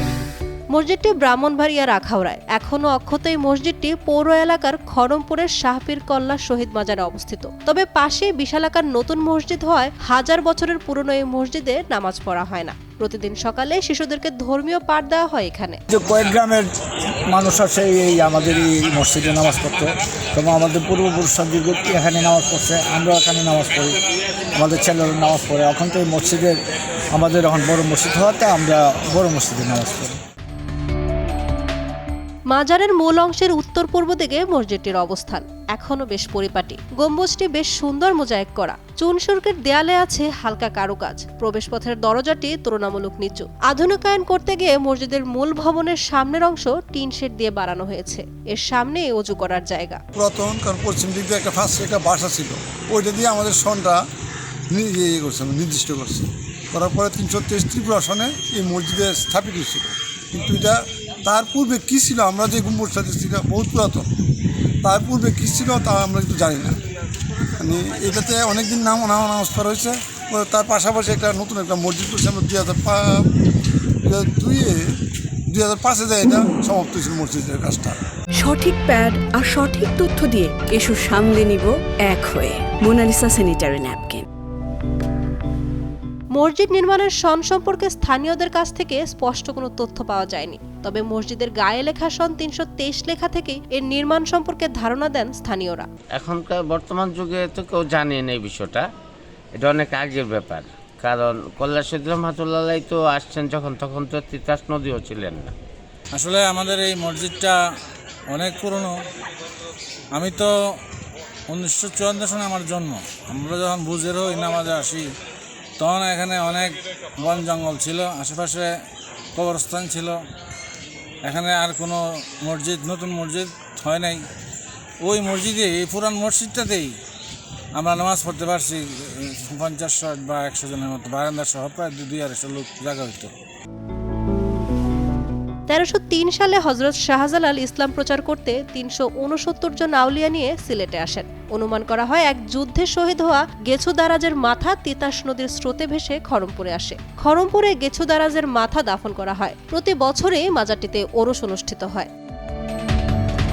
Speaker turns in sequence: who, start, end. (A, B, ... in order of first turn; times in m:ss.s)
0:00.7-0:15.8 A
0:15.9-0:16.8 B
0:17.3-0:24.0 B
0:24.6-0:26.6 B
0:27.1-0:30.1 B
0:32.5-0:50.0 A
0:50.1-0:54.0 C
0:54.7-1:04.1 C
1:04.8-1:06.8 C
1:07.6-1:13.3 C
1:14.0-1:15.0 C
1:15.5-1:18.0 C
1:18.4-1:24.2 D
1:26.3-1:35.9 A
1:36.1-1:38.9 E
1:39.6-1:45.5 E
1:46.1-1:47.6 F
1:48.3-1:49.0 F
1:50.1-1:50.8 F
1:51.5-1:55.1 F
1:55.8-1:58.7 F
1:59.3-2:00.2 F
2:01.2-2:04.2 F
2:05.0-2:06.9 F
2:07.8-2:13.3 F
2:15.7-2:32.1 A